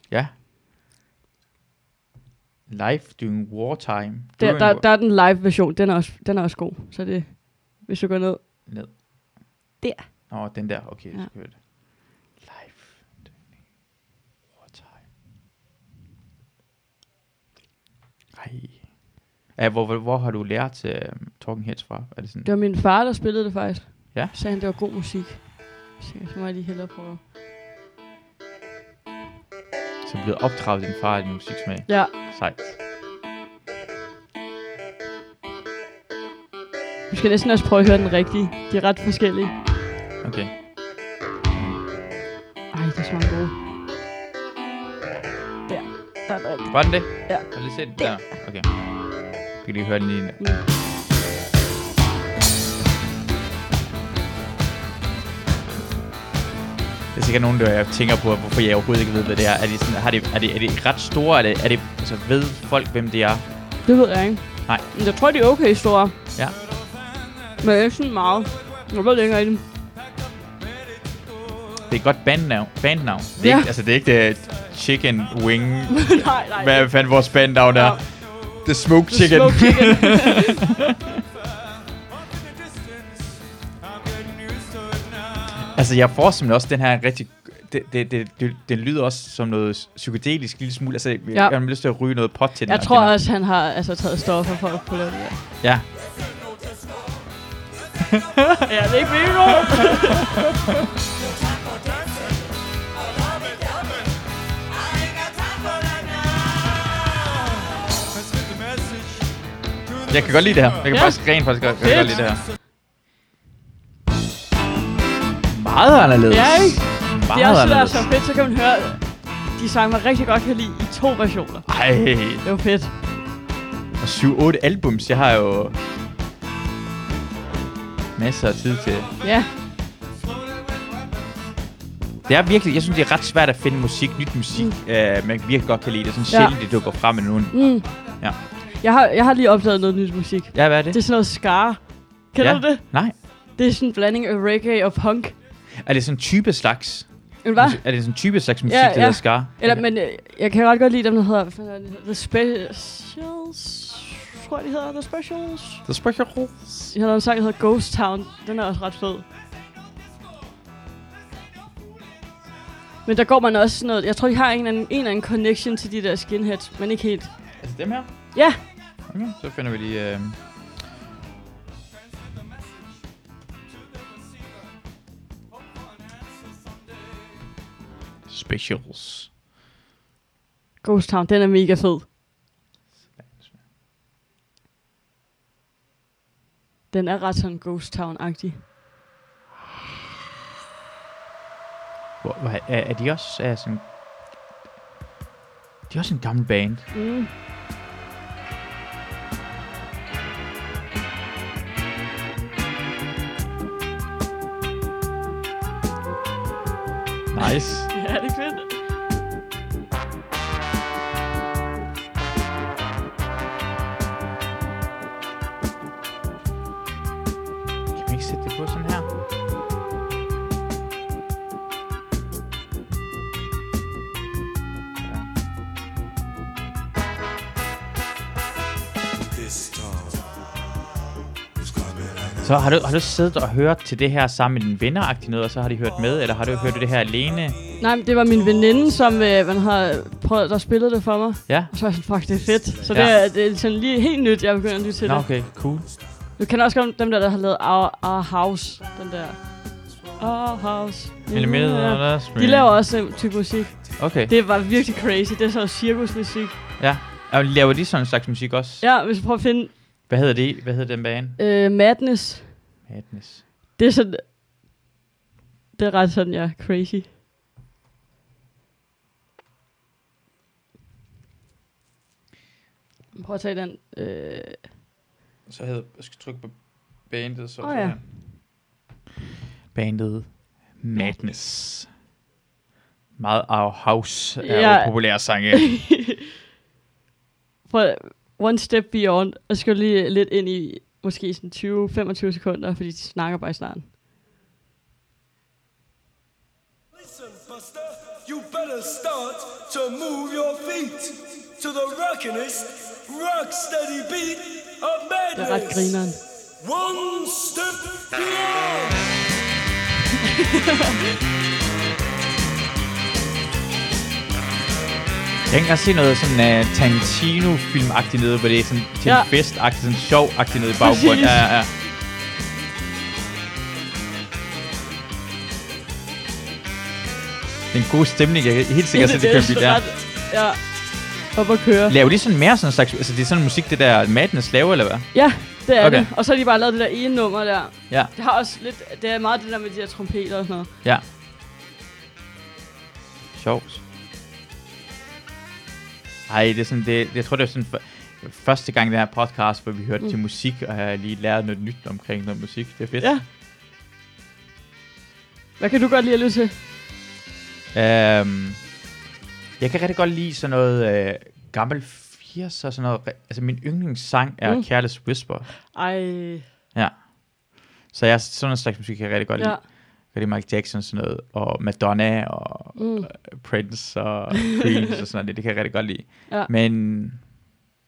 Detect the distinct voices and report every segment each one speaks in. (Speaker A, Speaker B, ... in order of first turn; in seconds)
Speaker A: 2.7-4.8, 8.7-9.0, 10.3-13.5, 14.6-15.0, 18.3-22.5, 30.0-32.7, 40.2-40.9, 41.5-41.8, 46.7-50.4, 57.1-63.4, 71.9-80.8, 85.7-93.2, 98.1-98.7, 110.1-112.4, 115.5-118.1, 121.7-122.4, 124.0-125.8, 128.2-129.2, 132.3-138.4, 140.5-141.0, 142.4-143.2, 145.8-149.8, 155.9-156.9, 167.6-170.4, 178.3-179.3, 183.2-183.6, 192.2-193.9, 195.9-196.9, 207.3-207.9, 217.9-219.1, 232.4-237.6, 245.0-245.9, 251.3-252.7, 254.0-254.3, 256.8-258.8, 260.1-261.4, 262.9-263.4, 275.5-278.0, 279.7-281.9, 283.2-285.7, 315.5-321.7, 327.7-329.9, 331.9-336.1, 343.4-343.8, 346.3-353.2, 357.7-358.6, 359.6-365.5, 366.7-377.4
Speaker B: 4.4-8.4, 9.8-10.3, 22.4-27.2, 31.9-32.1, 37.1-39.6, 42.7-43.6, 45.7-48.2, 63.9-66.2, 67.6-69.6, 73.4-73.7, 75.9-76.9, 77.7-78.0, 79.1-80.6, 92.7-95.4, 98.7-100.4, 110.9-112.2, 116.3-121.8, 122.4-122.9, 129.2-129.5, 136.3-136.6, 137.5-137.9, 138.7-145.4, 147.4-147.8, 148.7-155.9, 156.9-159.3, 163.1-167.5, 168.3-168.6, 180.8-182.1, 186.9-188.7, 196.9-197.3, 207.5-208.8, 237.8-245.2, 246.4-249.4, 250.2-256.6, 258.8-259.8, 261.4-262.7, 263.8-264.3, 265.8-267.1, 273.1-274.7, 277.6-278.0, 284.4-286.2, 287.7-293.9, 305.3-306.2, 310.3-311.0, 320.8-321.4, 328.9-330.6, 331.3-331.9, 335.1-340.7, 355.6-356.5, 365.6-366.5, 372.8-373.1
Speaker C: 298.3-304.4, 307.1-307.7